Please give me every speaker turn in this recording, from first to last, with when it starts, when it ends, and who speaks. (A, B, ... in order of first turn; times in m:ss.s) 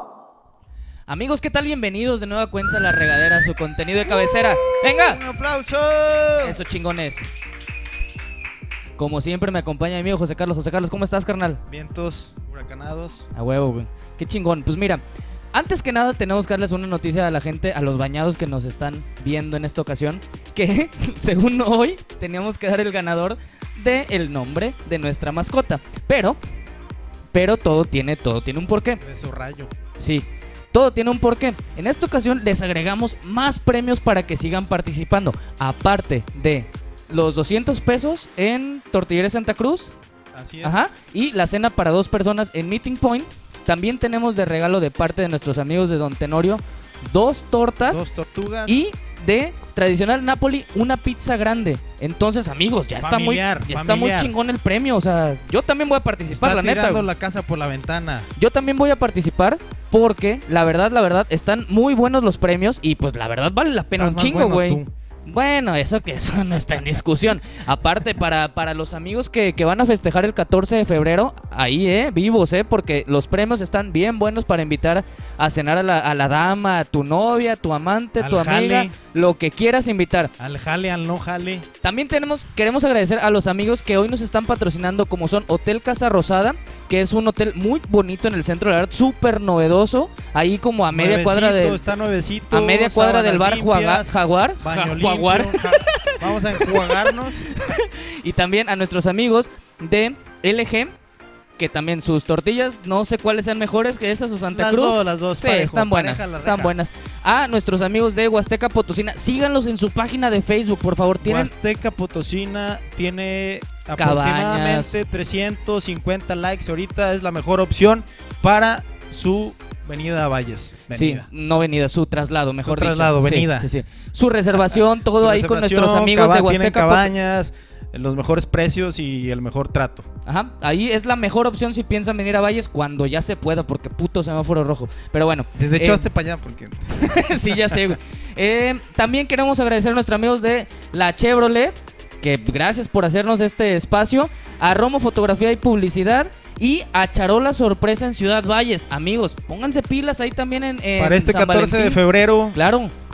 0:01.1-0:05.2 A
0:04.1-0:06.6 B
0:06.4-0:07.3 A
0:09.0-0:11.6 A
0:11.7-0:13.3 B
0:13.4-0:15.0 A
0:15.5-0:26.4 A
0:27.3-0:29.0 A
0:29.0-0:29.7 B
0:30.0-0:39.9 A
0:40.3-0:40.8 B
0:40.6-0:48.0 A
0:47.8-0:48.8 B
0:48.7-0:57.1 A
0:53.0-0:54.3 B
0:56.3-0:58.3 B
0:58.4-1:20.3 A
1:04.0-1:04.9 B
1:18.2-1:18.9 B
1:20.4-1:21.7 B
1:21.8-1:31.8 A
1:30.9-1:37.5 B
1:32.5-1:41.0 A
1:41.6-1:51.5 A
1:44.5-1:46.8 B
1:51.2-2:01.3 B
1:54.0-1:55.0 A
2:00.9-2:07.1 A
2:02.6-2:03.7 B
2:05.2-2:10.1 B
2:10.3-2:16.1 A
2:15.6-2:17.8 B
2:16.9-2:32.0 A
2:31.0-2:32.6 B
2:32.5-2:32.9 A